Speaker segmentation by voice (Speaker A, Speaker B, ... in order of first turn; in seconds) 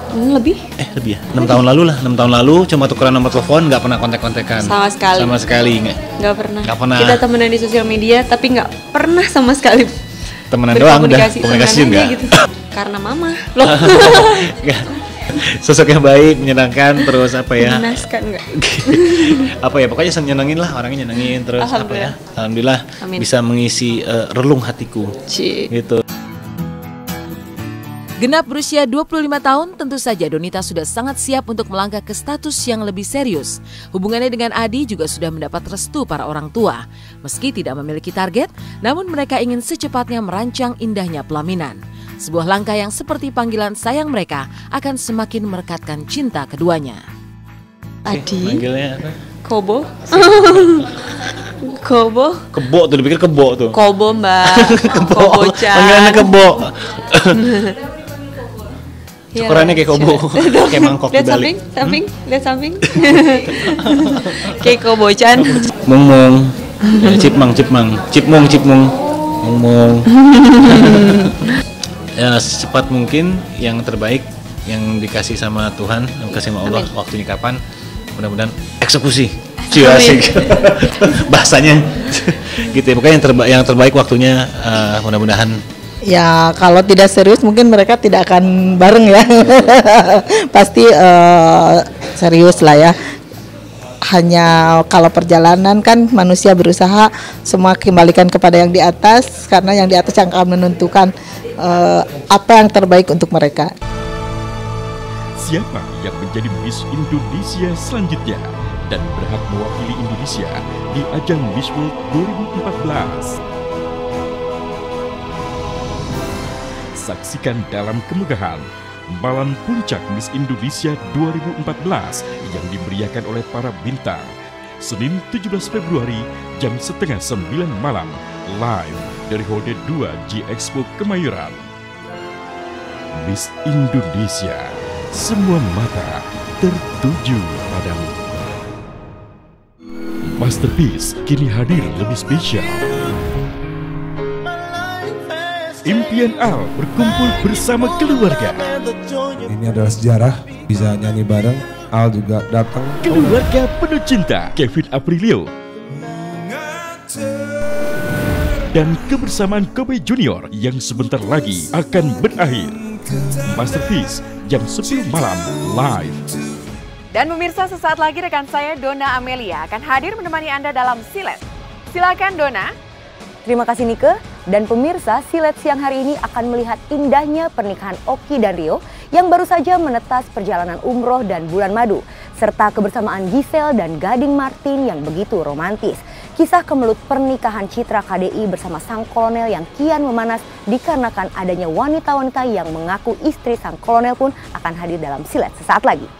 Speaker A: 0.1-0.6, 4.6-5.4, 6.1-10.0, 10.7-14.5, 17.6-19.4, 21.6-22.1, 25.3-25.7, 48.1-48.6, 49.4-50.9, 51.6-52.5, 53.7-56.4, 57.4-57.8, 59.3-65.7, 79.8-80.2
Speaker B: 0.8-7.2, 10.5-12.5, 13.6-25.1, 25.7-26.0, 48.1-49.2, 50.1-51.0, 52.5-53.8, 54.4-57.5, 59.3-62.0, 64.0-64.4, 65.7-70.1, 70.6-71.3, 72.2-77.6, 78.2-85.5
Speaker C: 28.2-47.0
Speaker D: 86.1-92.9, 94.1-103.7
Speaker E: 105.4-113.4, 117.0-124.3, 124.8-131.6, 133.1-138.4, 140.2-142.8, 145.8-148.7, 153.0-155.5, 158.7-166.2
Speaker F: 149.5-153.0
Speaker G: 167.1-172.7
Speaker H: 173.4-196.1